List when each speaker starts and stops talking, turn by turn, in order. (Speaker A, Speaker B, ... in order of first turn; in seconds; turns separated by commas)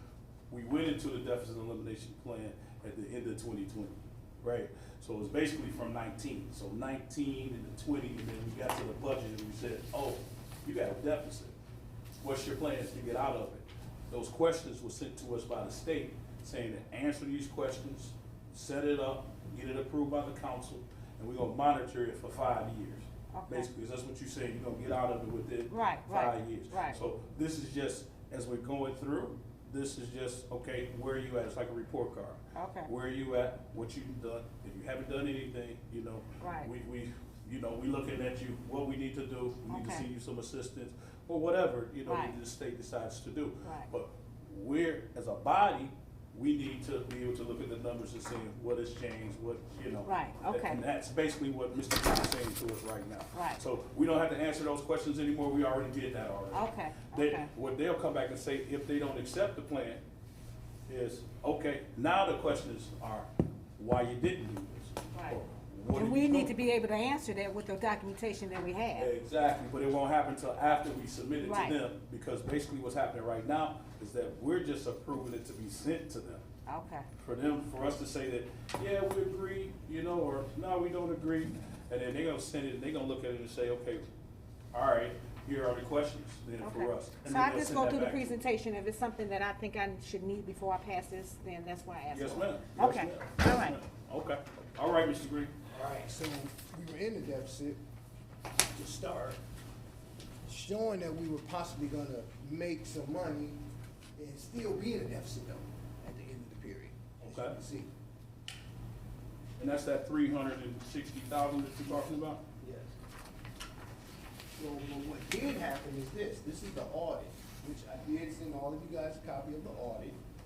Speaker A: 0.5-11.6, Speaker A: 12.2-60.0, Speaker B: 23.3-23.7, Speaker B: 25.7-27.0, Speaker B: 32.5-32.9, Speaker B: 36.4-36.7, Speaker B: 39.7-40.0, Speaker B: 42.0-42.4, Speaker B: 50.1-50.8, Speaker B: 53.3-53.6, Speaker B: 56.5-57.5, Speaker A: 60.9-66.5, Speaker B: 65.9-69.1, Speaker A: 68.9-76.4, Speaker B: 71.4-71.8, Speaker B: 76.7-77.1, Speaker A: 77.2-84.0, Speaker A: 84.7-88.4, Speaker B: 86.6-93.8, Speaker A: 92.1-95.5, Speaker C: 95.7-97.8, Speaker C: 98.7-99.4, Speaker C: 100.5-103.6, Speaker C: 104.2-107.9, Speaker A: 107.2-107.5, Speaker A: 109.6-112.4, Speaker C: 112.6-112.9, Speaker C: 114.6-120.2